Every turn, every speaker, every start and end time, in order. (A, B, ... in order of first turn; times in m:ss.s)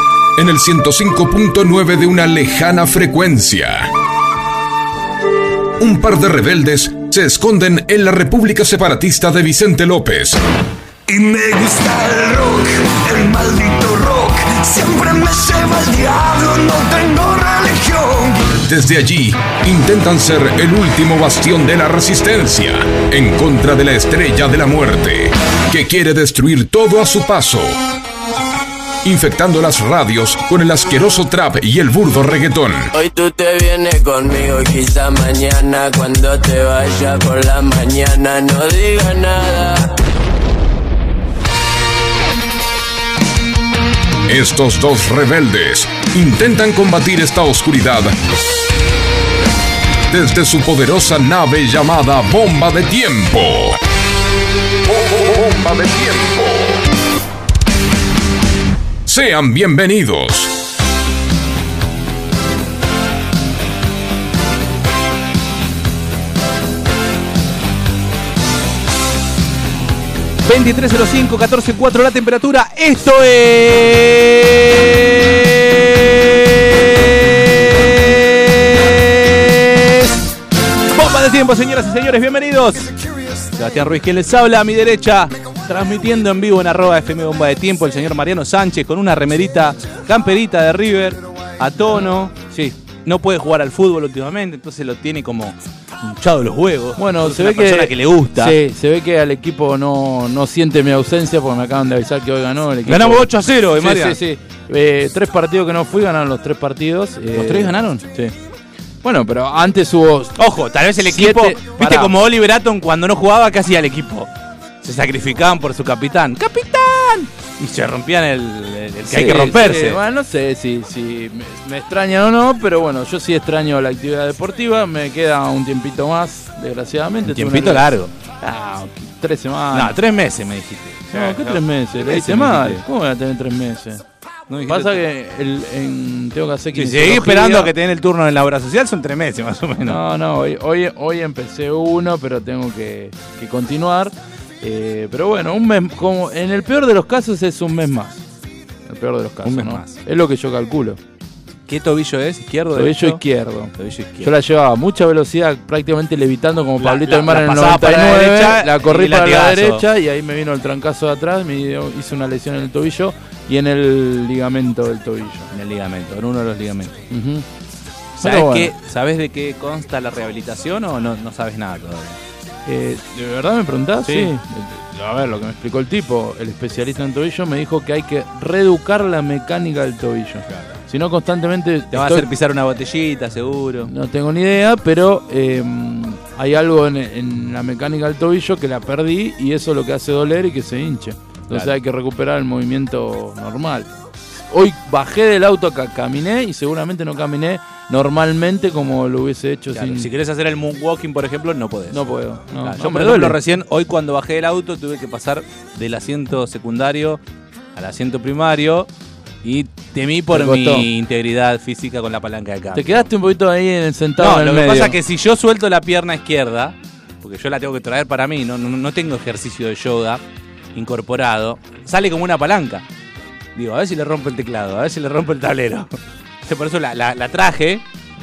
0:00.4-0:03.9 A
0:05.8-0:10.4 A
0:11.1-0:18.6 B
0:18.6-0:27.8 A
0:29.0-0:32.9 A
0:33.0-0:39.9 C
0:44.3-0:48.2 A
0:50.1-0:53.8 A
0:54.9-0:56.8 A
0:59.1-1:00.5 A
1:10.4-1:20.3 D
1:20.8-1:22.9 D
1:23.5-1:32.4 D
1:32.4-1:32.8 E
1:33.0-1:38.6 D
1:37.0-1:48.3 E
1:42.8-1:44.2 D
1:47.3-1:48.0 D
1:49.0-1:50.4 E
1:50.4-1:54.3 D
1:51.0-1:52.2 E
1:54.8-2:00.0 D
1:59.1-2:10.0 E
2:07.2-2:08.1 D
2:09.7-2:12.8 D
2:11.1-2:14.0 E
2:14.5-2:15.0 D
2:14.7-2:17.7 E
2:16.7-2:20.0 D
2:19.8-2:28.2 E
2:28.8-2:31.0 E
2:29.4-2:30.0 D
2:31.7-2:33.2 D
2:32.7-2:45.5 E
2:33.8-2:34.3 D
2:36.8-2:39.8 D
2:45.5-2:47.0 D
2:47.1-2:47.5 E
2:48.1-2:48.7 E
2:48.2-2:52.2 D
2:52.7-3:02.3 E
2:54.0-2:54.3 D
3:01.9-3:03.9 D
3:03.8-3:20.1 E
3:19.7-3:27.2 D
3:21.9-3:23.4 E
3:27.8-3:28.9 D
3:29.4-3:33.1 D
3:30.3-3:30.9 E
3:32.7-3:35.0 E
3:34.2-3:40.2 D
3:40.7-3:42.8 D
3:43.6-3:45.9 D
3:46.4-3:47.8 D